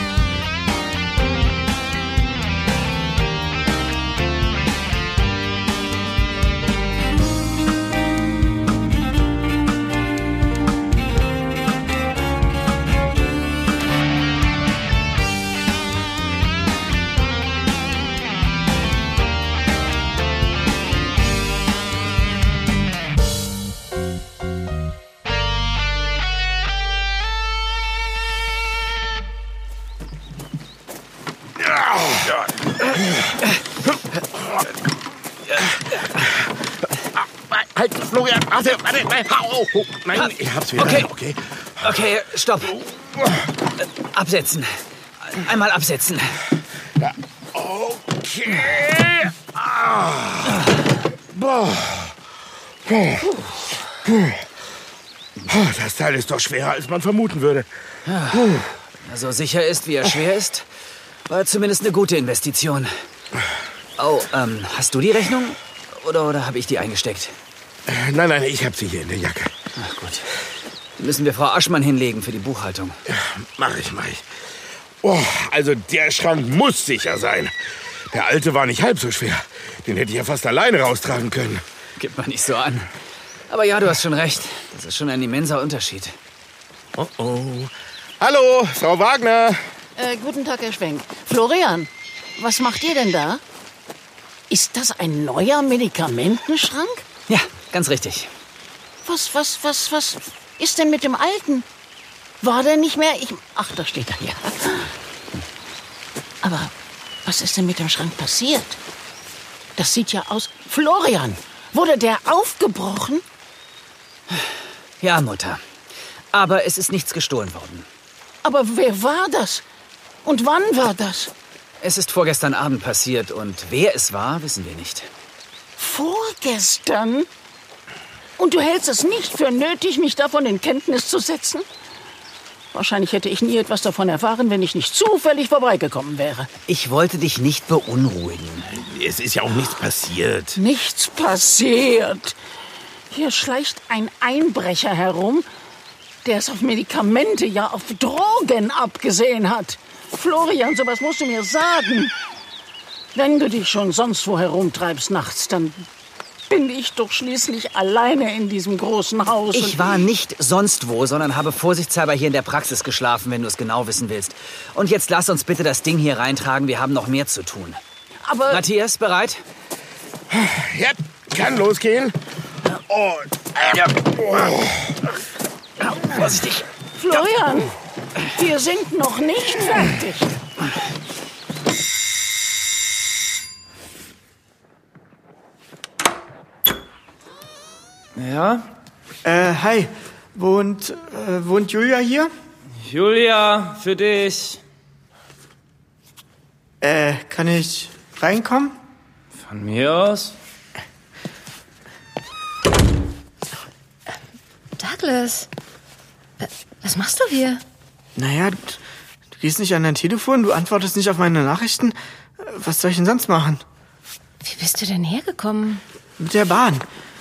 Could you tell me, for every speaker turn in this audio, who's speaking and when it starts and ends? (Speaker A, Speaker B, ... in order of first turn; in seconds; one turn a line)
Speaker A: 31.6-32.5
Speaker A: 37.5-41.4
Speaker B: 40.2-41.1
Speaker B: 41.8-42.8
Speaker B: 44.0-46.4
Speaker A: 47.0-50.5
Speaker A: 51.3-52.1
Speaker A: 52.9-53.3
Speaker A: 54.0-54.4
Speaker A: 55.5-57.7
Speaker B: 58.1-60.7
Speaker A: 58.3-58.7
Speaker B: 61.3-62.9
Speaker B: 64.0-67.3
Speaker A: 67.9-69.5
Speaker B: 69.8-70.2
Speaker B: 71.0-73.0
Speaker A: 73.2-74.2
Speaker A: 75.0-77.5
Speaker A: 78.1-81.6
Speaker B: 82.0-82.9
Speaker B: 83.5-86.2
Speaker A: 87.0-89.6
Speaker C: 90.0-93.4
Speaker C: 94.5-97.0
Speaker B: 97.3-98.3
Speaker C: 99.0-101.7
Speaker C: 102.4-104.9
Speaker C: 106.4-106.7
Speaker C: 107.2-108.8
Speaker C: 109.8-113.2
Speaker B: 115.0-115.6
Speaker B: 116.3-117.9
Speaker C: 118.4-119.6
Speaker C: 120.2-121.3
Speaker B: 121.8-125.1
Speaker C: 125.8-127.3
Speaker C: 128.4-131.7
Speaker C: 132.7-136.5
Speaker B: 136.7-138.7
Speaker A: 138.7-140.6
Speaker C: 140.6-142.4
Speaker C: 143.1-145.5
Speaker C: 146.2-152.1
Speaker C: 153.2-155.9
Speaker C: 156.5-160.1
Speaker B: 159.5-167.8
Speaker C: 168.3-168.6
Speaker B: 168.5-169.4
Speaker A: 170.3-172.2
Speaker A: 173.0-174.6
Speaker B: 176.0-176.6
Speaker C: 177.0-177.7
Speaker C: 178.3-180.3
Speaker D: 188.2-188.7
Speaker E: 189.2-192.3
Speaker D: 192.8-194.6
Speaker E: 196.8-198.8
Speaker D: 199.4-200.4
Speaker F: 204.8-205.5
Speaker F: 206.4-207.6
Speaker E: 208.2-208.8
Speaker E: 209.4-213.6
Speaker F: 214.4-215.8
Speaker E: 216.2-216.9